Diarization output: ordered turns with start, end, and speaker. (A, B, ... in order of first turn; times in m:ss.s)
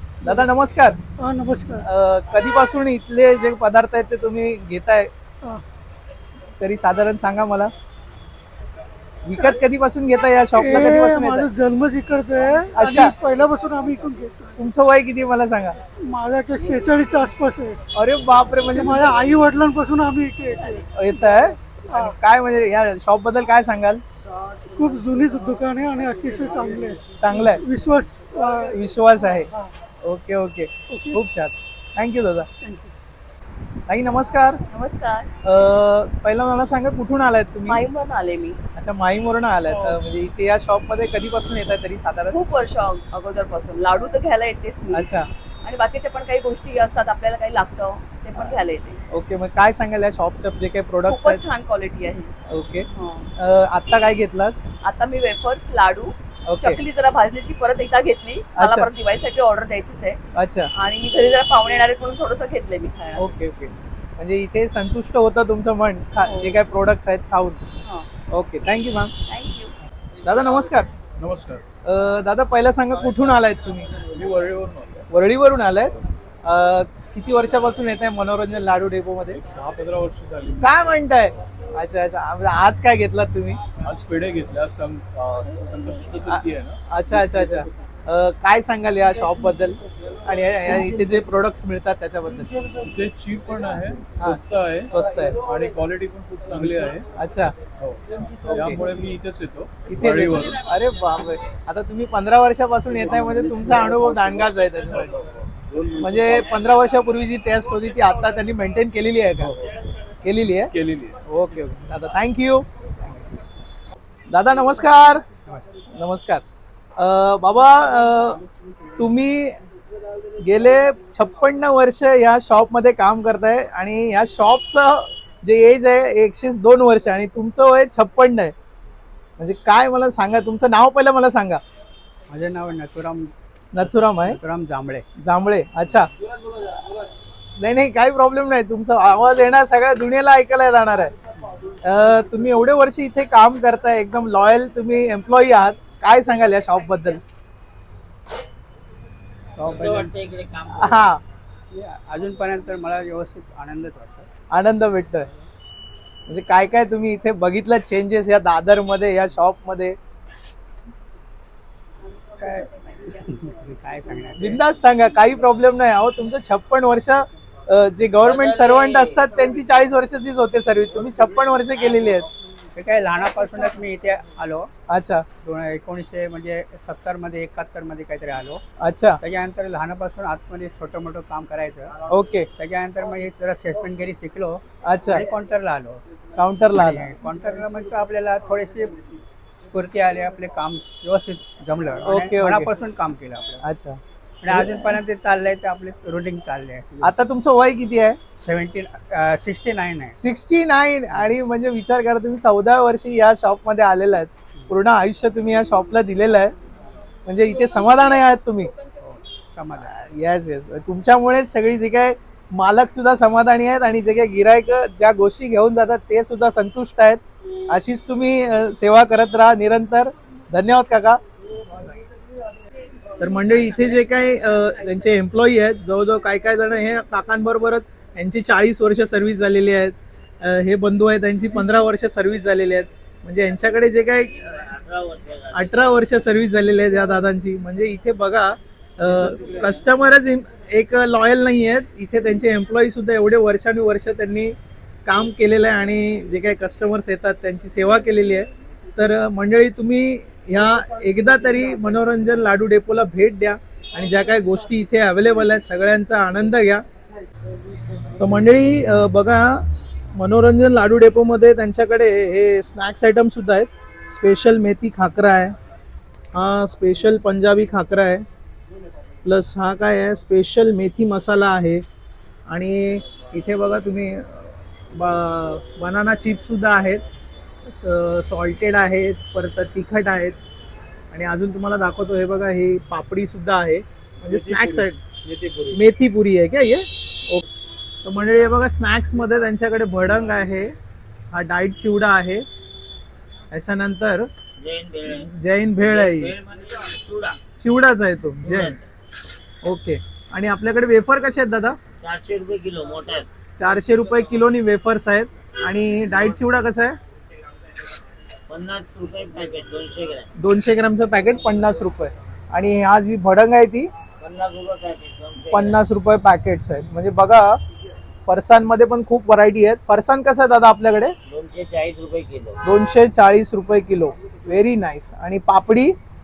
0:00.2-0:01.0 A
0:01.2-0:01.8 B
0:01.8-0:05.1 A
0:06.6-0:07.7 A
0:09.2-0:11.5 A
0:10.5-0:14.5 B
0:12.7-0:13.1 A
0:14.6-0:15.8 A
0:16.0-0:17.8 B
0:17.9-0:19.0 A
0:18.7-0:20.8 B
0:20.9-0:24.0 A
0:21.9-0:22.1 B
0:24.7-0:28.8 B
0:27.2-0:27.6 A
0:28.7-0:29.5 A
0:29.4-0:29.7 B
0:30.0-0:32.5 A
0:30.9-0:31.2 B
0:32.6-0:32.9 B
0:33.9-0:34.6 A
0:34.7-0:35.3 C
0:35.4-0:37.8 A
0:37.6-0:38.6 C
0:38.7-0:42.4 A
0:42.3-0:45.1 C
0:44.9-0:45.3 A
0:45.6-0:49.0 C
0:49.1-0:51.4 A
0:51.0-0:52.3 C
0:52.5-0:52.8 A
0:52.9-0:53.3 C
0:53.4-0:54.5 A
0:54.8-1:00.2 C
0:56.5-0:56.8 A
0:58.6-0:58.9 A
1:00.3-1:00.7 A
1:00.7-1:03.3 C
1:03.2-1:07.6 A
1:06.2-1:06.6 C
1:08.3-1:09.1 A
1:09.3-1:09.7 C
1:10.2-1:10.9 A
1:11.2-1:11.6 D
1:11.8-1:13.9 A
1:13.9-1:15.1 D
1:15.1-1:19.4 A
1:19.5-1:20.9 D
1:20.6-1:23.6 A
1:23.8-1:26.8 D
1:26.2-1:32.5 A
1:32.7-1:37.1 D
1:34.2-1:35.4 A
1:37.1-1:37.6 A
1:37.8-1:40.6 D
1:38.4-1:38.8 A
1:39.9-1:45.1 A
1:43.1-1:46.7 D
1:46.0-1:49.5 A
1:49.4-1:49.8 D
1:50.2-1:50.7 A
1:50.7-1:51.8 D
1:51.3-1:52.6 A
1:53.0-1:53.4 E
1:54.3-1:55.2 A
1:56.0-1:56.4 A
1:57.0-1:58.4 A
1:59.0-1:59.6 A
2:00.4-2:08.5 A
2:09.4-2:11.6 A
2:12.3-2:13.3 E
2:13.7-2:14.4 A
2:14.1-2:15.0 E
2:15.2-2:16.1 A
2:17.6-2:21.1 A
2:21.8-2:27.2 A
2:29.6-2:30.1 E
2:29.6-2:31.0 F
2:30.7-2:31.2 A
2:31.7-2:34.3 E
2:34.5-2:35.3 A
2:36.3-2:40.0 A
2:42.4-2:44.6 E
2:44.4-2:52.3 A
2:48.2-2:49.2 F
2:52.7-2:54.7 E
2:54.9-2:55.3 A
2:55.4-2:58.6 E
2:58.8-2:59.2 A
2:59.2-3:01.9 E
3:02.1-3:02.5 A
3:02.6-3:06.0 E
3:04.8-3:05.2 A
3:06.4-3:07.2 A
3:06.7-3:13.6 E
3:12.0-3:12.7 A
3:13.6-3:15.0 A
3:14.4-3:17.1 E
3:17.0-3:18.2 A
3:18.4-3:20.1 E
3:20.2-3:26.5 A
3:27.2-3:28.7 A
3:29.0-3:30.0 E
3:29.9-3:41.2 A
3:43.2-3:54.6 A
3:54.4-3:56.0 F
3:55.5-4:04.5 A
4:05.0-4:16.8 A
4:18.2-4:25.6 A
4:26.3-4:28.2 A
4:29.2-4:31.8 A
4:32.5-4:37.0 A
4:37.6-4:40.4 A
4:41.1-4:45.0 A
4:44.2-4:45.8 D
4:45.7-4:47.4 A
4:48.0-4:50.7 A
4:51.3-4:52.4 A
4:53.5-4:54.3 A
4:54.6-4:55.3 F
4:55.1-4:56.3 A
4:55.8-4:57.4 F
4:57.6-4:58.8 A
4:58.4-4:58.9 F
4:59.6-5:01.8 A
5:02.0-5:03.3 F
5:03.6-5:07.0 A
5:08.5-5:10.3 F
5:10.4-5:13.9 A
5:14.2-5:15.8 F
5:15.5-5:17.6 A
5:18.2-5:21.1 A
5:21.3-5:22.6 F
5:22.6-5:26.0 A